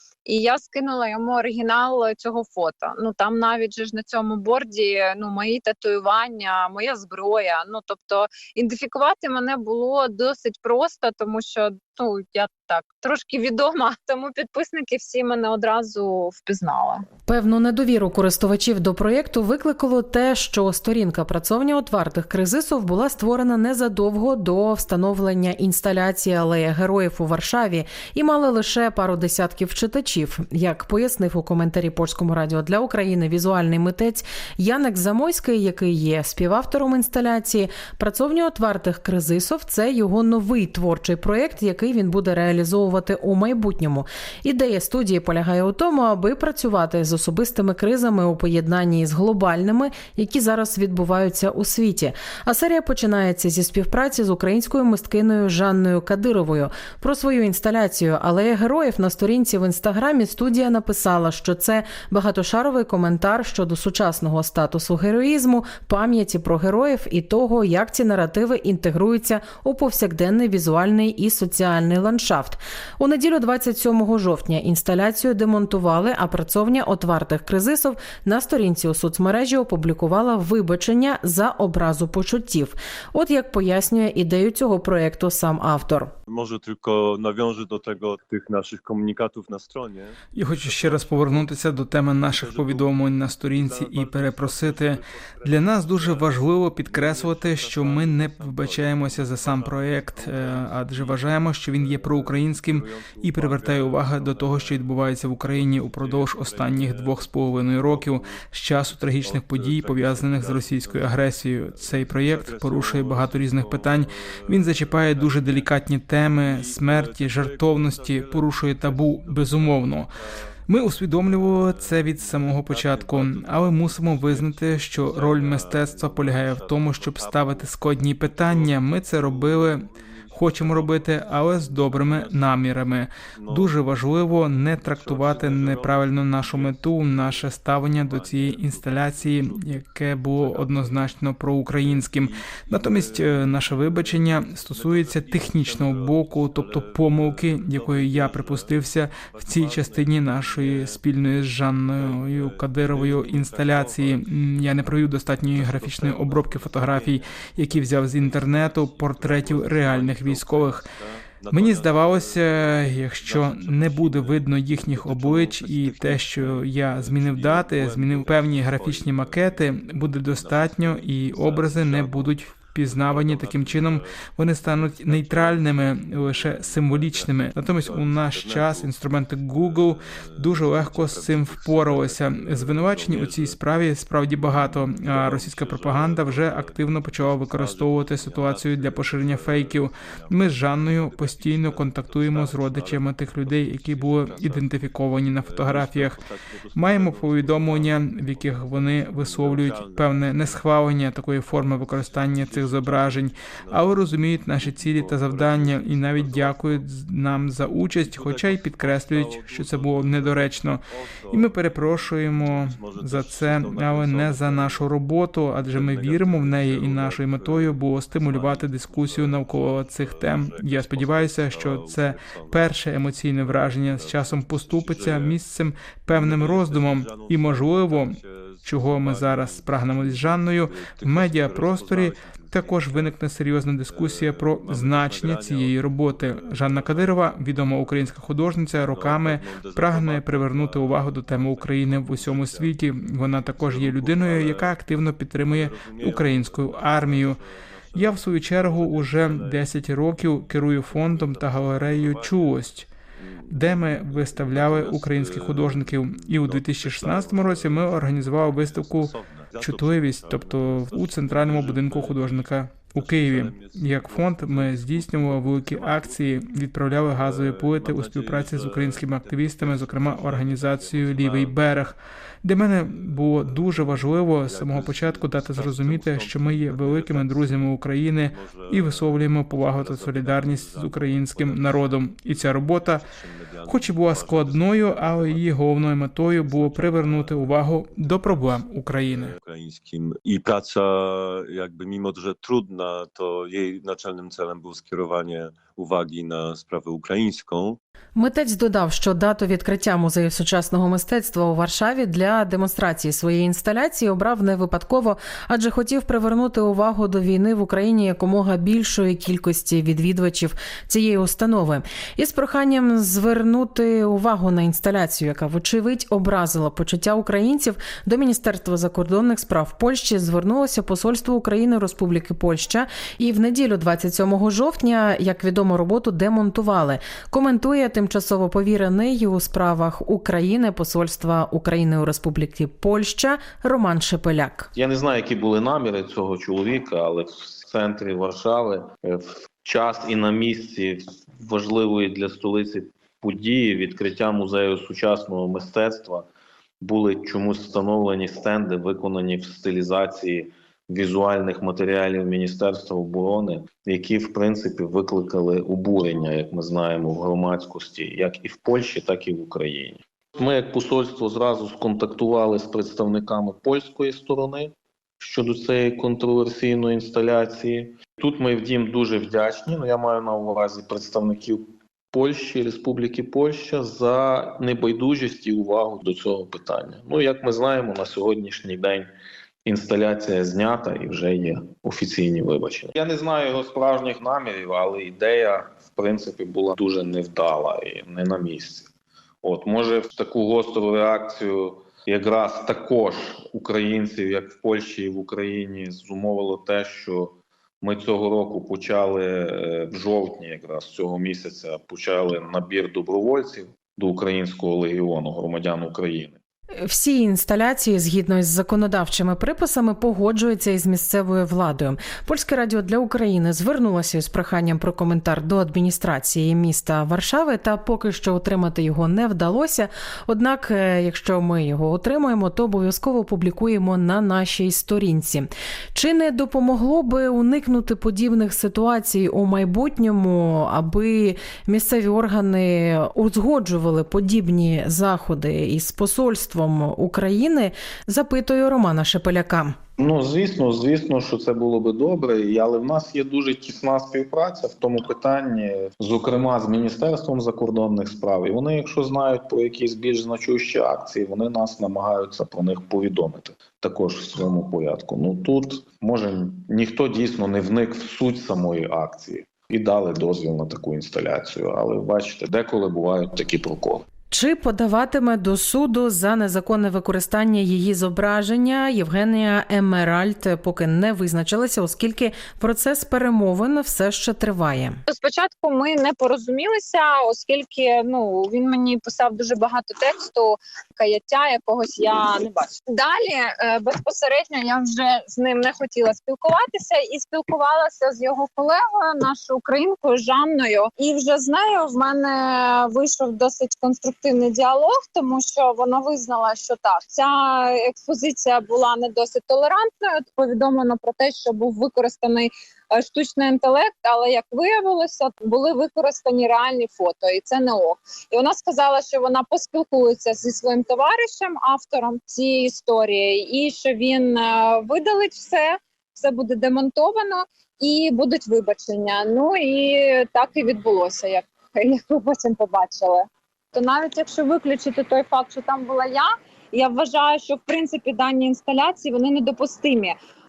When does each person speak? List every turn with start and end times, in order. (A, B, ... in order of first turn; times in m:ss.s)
0:00.2-0:17.0 A
0:17.3-1:26.1 B
1:26.3-1:31.5 C
1:30.3-2:00.1 D
1:32.2-1:32.9 C
1:33.5-1:55.7 C
1:56.4-2:12.8 C
2:00.7-2:40.9 D
2:13.3-2:21.2 C
2:21.7-2:31.0 C
2:32.0-2:58.9 C
2:41.5-3:16.2 D
2:59.5-3:03.6 C
3:04.3-3:20.8 C
3:16.7-4:07.4 D
3:21.5-3:26.8 C
3:28.0-3:34.9 C
3:35.6-3:45.4 C
3:46.1-3:53.2 C
3:53.8-4:26.2 C
4:07.9-4:12.9 D
4:13.5-4:43.0 D
4:27.1-4:31.6 C
4:32.8-4:57.8 C
4:43.6-4:49.3 D
4:58.2-5:34.7 B
5:34.7-5:46.2 E
5:46.8-6:19.1 E
6:19.6-6:28.9 E
6:29.4-6:46.4 E
6:46.8-7:19.8 B
7:20.0-7:44.0 E
7:44.3-7:55.0 B
7:55.1-8:50.2 A